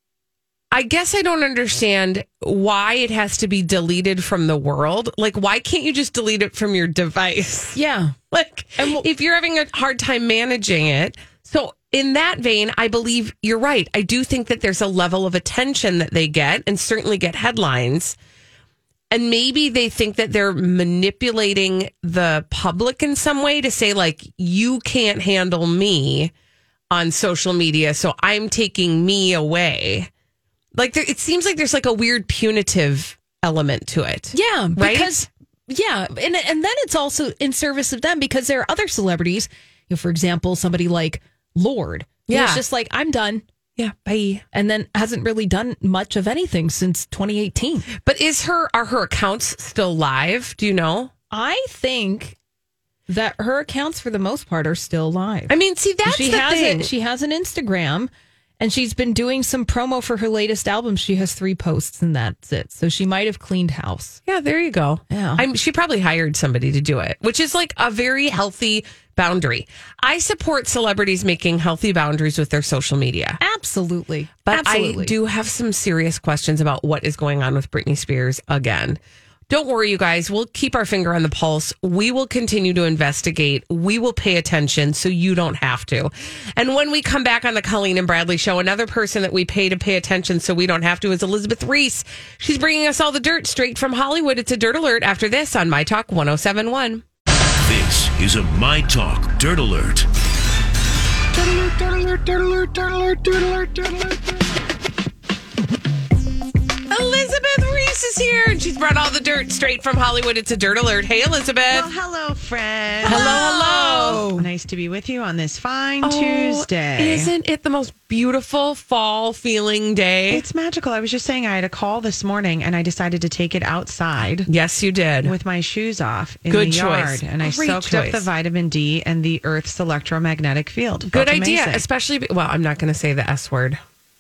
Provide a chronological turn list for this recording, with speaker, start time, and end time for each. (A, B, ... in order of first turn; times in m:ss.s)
0:00.7-0:07.8 A
0:07.8-0:08.1 B
0:08.3-0:18.2 A
0:08.8-0:09.0 B
0:19.1-0:26.3 A
0:26.9-0:30.1 A
0:30.8-0:35.2 A
0:34.3-0:43.4 B
0:42.3-0:42.6 A
0:43.8-0:44.4 A
0:44.5-0:47.9 B
0:48.0-0:51.1 A
0:51.3-0:52.3 B
0:53.1-0:55.5 B
0:55.5-0:56.9 A
0:56.0-1:04.2 B
1:04.2-1:13.4 A
1:05.1-1:05.4 B
1:13.4-1:15.1 B
1:14.4-1:19.0 A
1:19.5-1:37.0 A
1:37.6-1:40.1 C
1:41.4-1:44.2 A
1:46.9-1:51.9 A
1:51.7-1:53.5 D
1:53.0-1:54.3 A
1:53.0-1:54.4 B
1:54.3-1:57.3 D
1:56.0-2:00.4 A
2:00.3-2:04.5 D
2:04.5-2:05.3 A
2:05.2-2:11.8 D
2:06.5-2:08.3 A
2:11.1-2:13.8 A